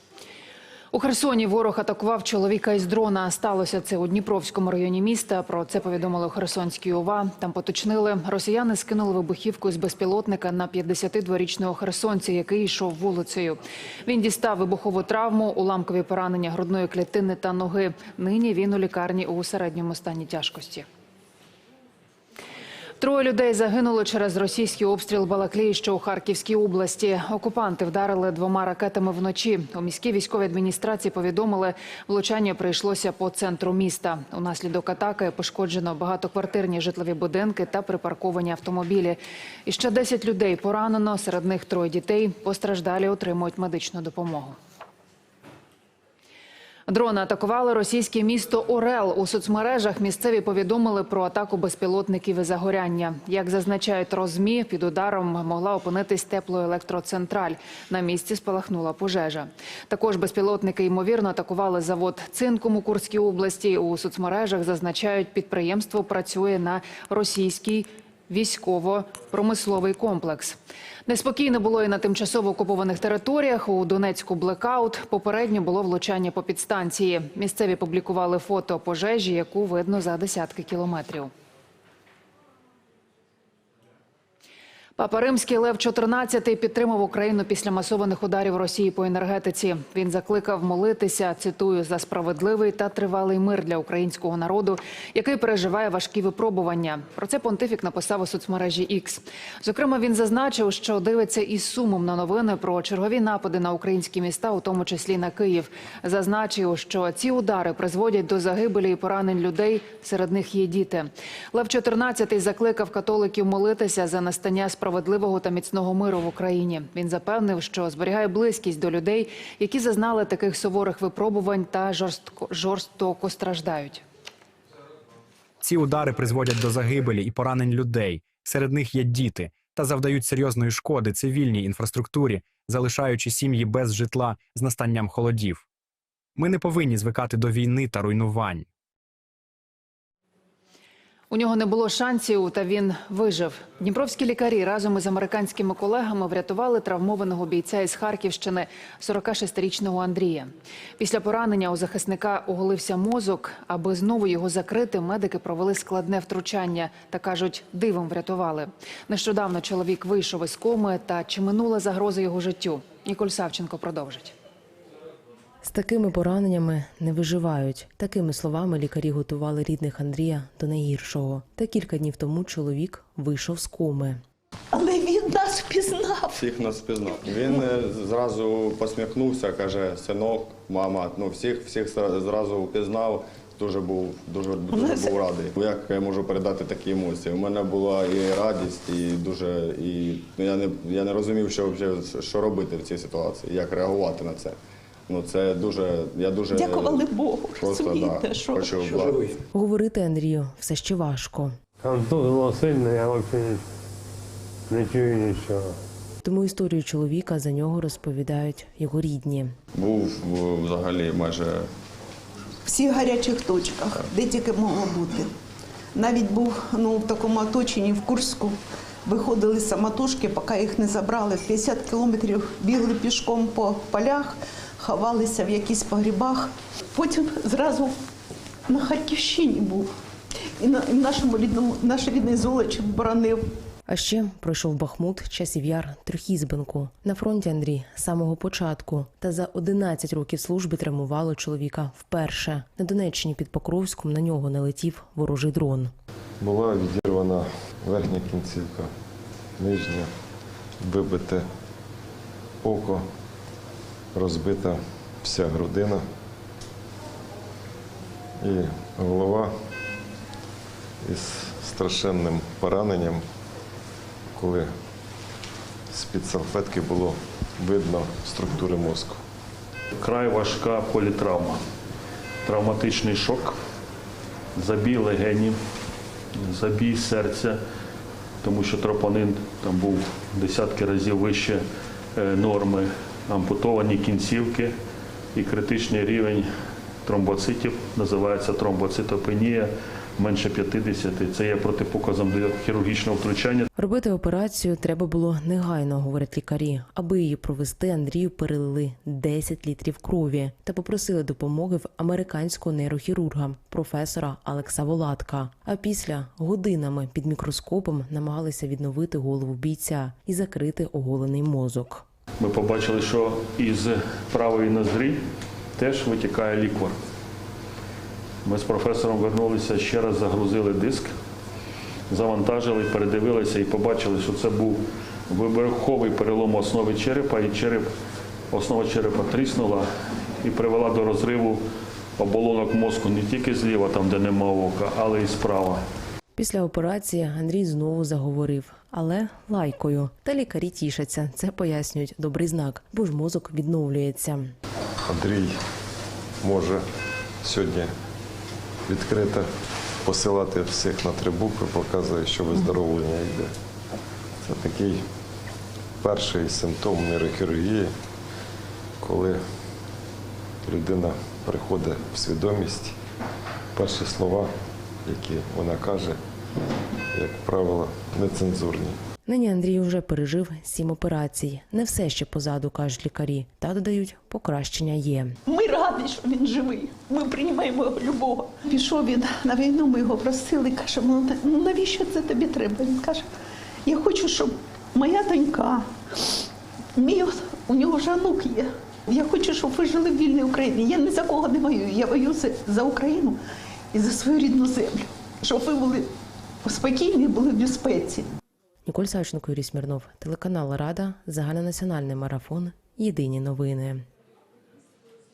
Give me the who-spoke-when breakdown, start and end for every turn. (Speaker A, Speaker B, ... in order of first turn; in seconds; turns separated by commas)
Speaker A: 0.9-20.9, Speaker A: 23.0-44.5, Speaker A: 46.9-70.5, Speaker A: 71.1-81.3, Speaker A: 85.0-124.0, Speaker B: 125.6-135.6, Speaker B: 136.3-138.7, Speaker A: 141.3-164.3, Speaker C: 165.6-174.2, Speaker D: 174.7-176.4, Speaker E: 176.3-194.6, Speaker D: 184.7-185.2, Speaker E: 195.1-197.1, Speaker D: 196.5-198.8, Speaker E: 197.6-199.4, Speaker C: 199.5-201.5, Speaker F: 201.8-203.6, Speaker F: 204.7-205.8, Speaker C: 206.2-209.5, Speaker E: 209.7-211.7, Speaker D: 212.7-215.3, Speaker D: 215.9-227.9, Speaker D: 228.7-229.9, Speaker D: 230.6-233.4, Speaker C: 233.9-245.9, Speaker G: 246.4-248.9, Speaker G: 249.6-250.1, Speaker G: 250.8-251.4, Speaker G: 252.6-253.0, Speaker G: 254.1-256.0, Speaker G: 258.4-259.5, Speaker G: 261.0-263.2, Speaker G: 264.3-264.7, Speaker G: 265.9-269.2, Speaker H: 270.0-271.6, Speaker H: 272.4-273.6, Speaker H: 274.5-275.6, Speaker H: 276.4-277.6, Speaker H: 278.4-281.6, Speaker H: 282.1-284.7, Speaker H: 285.3-286.4, Speaker H: 287.0-293.7, Speaker C: 293.8-312.0, Speaker H: 312.4-315.2, Speaker H: 315.8-316.9, Speaker H: 318.4-321.1, Speaker H: 322.1-327.9, Speaker H: 328.5-329.8, Speaker H: 330.4-331.6, Speaker H: 332.2-335.8, Speaker C: 336.4-344.5, Speaker G: 345.1-345.6, Speaker G: 346.4-346.8, Speaker G: 347.4-347.9, Speaker G: 348.9-349.5, Speaker G: 350.0-353.5, Speaker G: 354.4-355.0, Speaker G: 356.0-357.9, Speaker G: 359.0-359.4, Speaker G: 360.6-362.9, Speaker G: 363.7-364.5, Speaker G: 365.0-366.2, Speaker G: 367.1-369.0, Speaker C: 369.2-375.4, Speaker D: 375.4-383.2, Speaker D: 383.8-393.4, Speaker D: 393.9-396.1, Speaker D: 396.6-398.3, Speaker C: 398.9-404.0